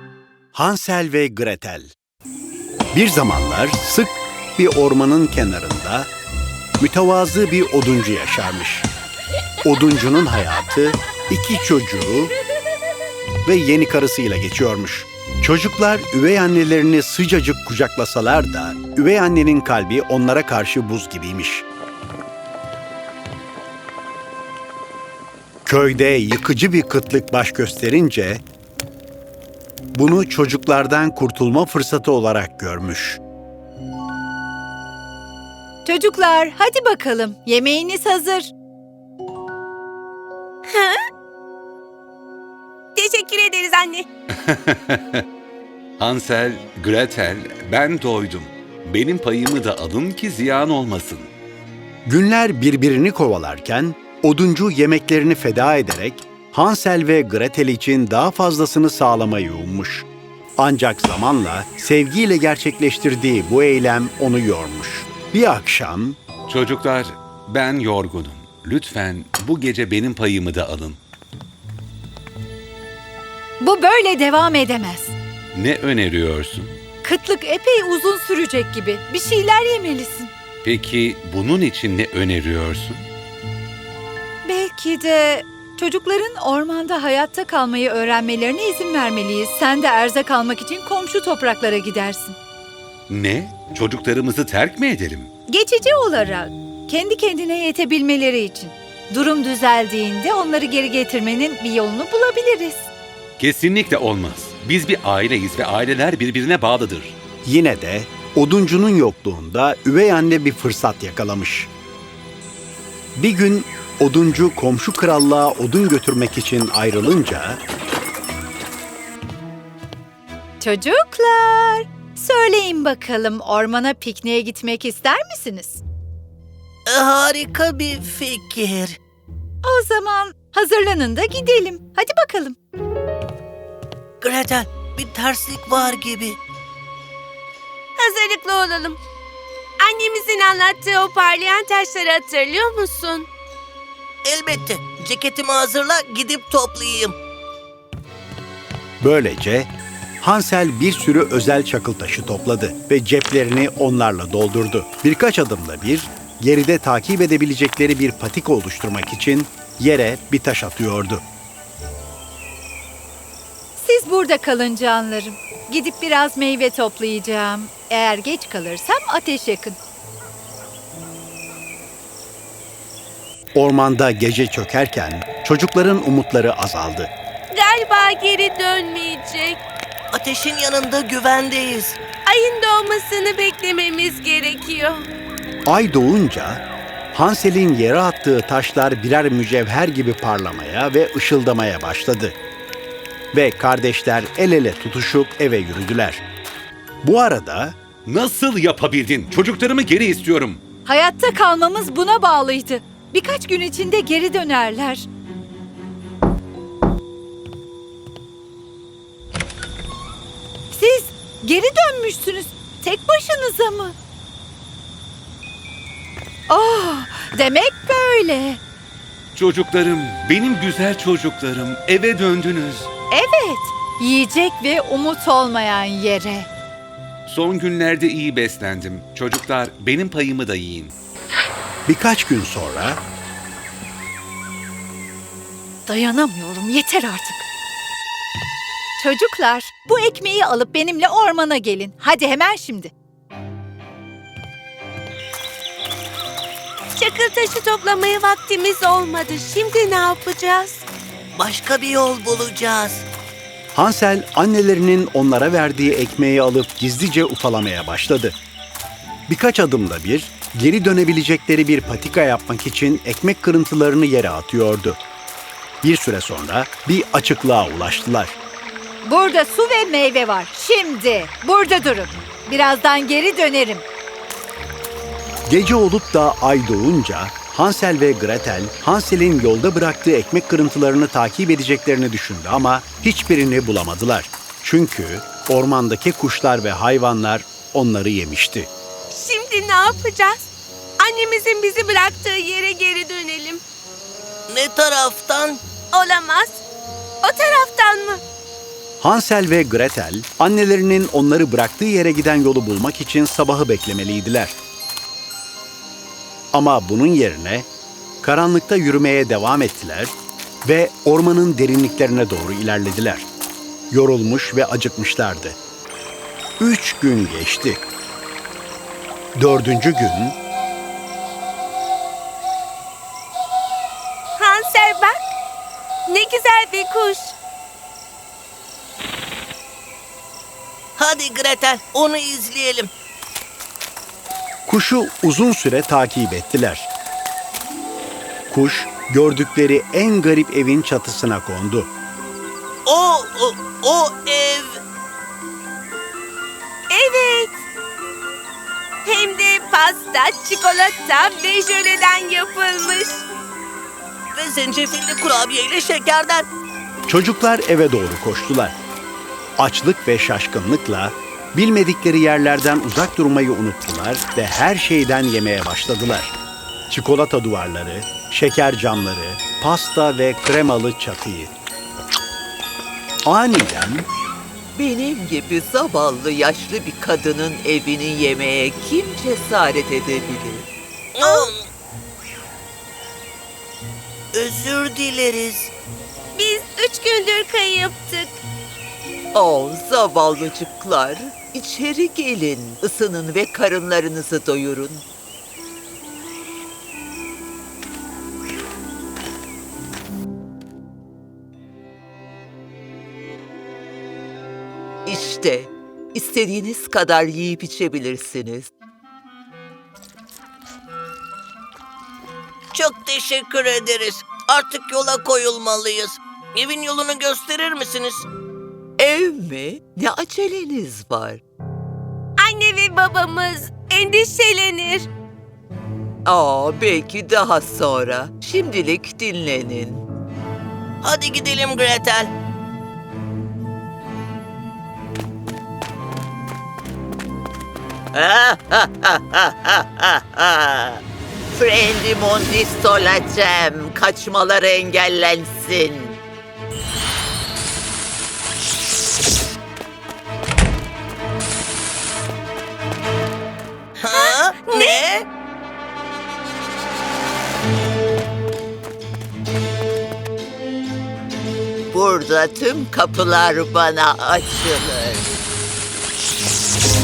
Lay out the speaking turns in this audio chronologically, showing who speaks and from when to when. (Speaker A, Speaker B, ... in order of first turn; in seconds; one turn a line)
Speaker A: 0.5-1.9
Speaker A: 2.9-6.1
Speaker A: 6.8-8.9
Speaker A: 9.6-12.3
Speaker A: 13.4-21.6
Speaker A: 25.6-28.4
Speaker A: 29.9-33.2
Speaker B: 35.8-38.5
Speaker C: 40.7-41.0
Speaker C: 42.9-44.0
Speaker D: 44.4-45.2
Speaker D: 46.0-51.3
Speaker A: 52.0-60.0
Speaker A: 60.6-66.2
Speaker D: 66.5-71.0
Speaker B: 73.6-75.1
Speaker D: 75.5-76.7
Speaker B: 77.0-80.3
Speaker D: 80.6-83.1
Speaker B: 84.4-92.4
Speaker D: 93.1-95.3
Speaker B: 95.5-102.9
Speaker D: 103.4-107.1
Speaker A: 107.4-111.7
Speaker A: 113.2-117.6
Speaker B: 120.6-125.8
Speaker E: 126.9-129.0
Speaker B: 129.6-132.6
Speaker E: 134.2-136.4
Speaker C: 138.0-139.0
Speaker C: 139.8-143.3
Speaker E: 144.2-147.2
Speaker A: 149.0-161.2
Speaker B: 163.8-169.8
Speaker A: 173.6-177.1
Speaker C: 177.5-179.6
Speaker E: 180.1-182.0
Speaker C: 182.2-185.1
Speaker A: 185.7-192.3
Speaker A: 193.3-196.2
Speaker A: 197.0-197.7
Speaker D: 198.1-200.6
Speaker B: 200.8-205.1
Speaker B: 210.7-213.9
Speaker B: 216.5-218.6
Speaker D: 219.3-222.9
Speaker B: 223.1-226.5
Speaker D: 227.2-230.9
Speaker A: 231.9-233.0
Speaker B: 235.8-237.4
Speaker B: 239.0-242.9
Speaker C: 247.0-250.8
Speaker E: 251.3-253.0
Speaker A: 253.7-258.4
Speaker A: 259.3-265.0
Speaker A: 265.8-268.4
Speaker B: 269.0-273.8
Speaker A: 275.4-288.7
Speaker C: 289.1-293.6
Speaker E: 294.5-295.6
Speaker C: 295.9-296.6
Speaker C: 297.2-298.2
Speaker A: 299.0-304.5
Speaker A: 306.5-307.7
Speaker A: 308.2-310.1
Speaker A: 310.6-313.3
Speaker A: 313.9-315.6
Speaker A: 316.6-317.8
Speaker A: 319.4-320.4
Speaker C: 324.4-325.2
Speaker C: 326.1-327.3
Speaker E: 331.0-332.9
Speaker A: 334.7-336.9
Speaker A: 338.5-341.9
Speaker E: 342.9-344.8
Speaker C: 346.9-347.6
Speaker C: 349.0-353.2
Speaker E: 354.3-356.4
Speaker A: 357.1-358.8
Speaker A: 359.6-366.3
Speaker A: 366.9-371.5
Speaker A: 373.2-374.1
Speaker F: 374.7-380.7
Speaker E: 381.1-381.7
Speaker E: 384.3-385.7
Speaker C: 386.3-388.4
Speaker F: 389.3-395.0
Speaker F: 405.1-408.7
Speaker E: 412.7-418.2
Speaker F: 419.0-421.4
Speaker C: 422.4-425.1
Speaker F: 426.2-430.0
Speaker E: 431.0-432.3
Speaker F: 438.1-441.0
Speaker F: 441.5-446.2
Speaker E: 454.0-455.2
Speaker C: 454.1-455.0
Speaker F: 461.9-465.3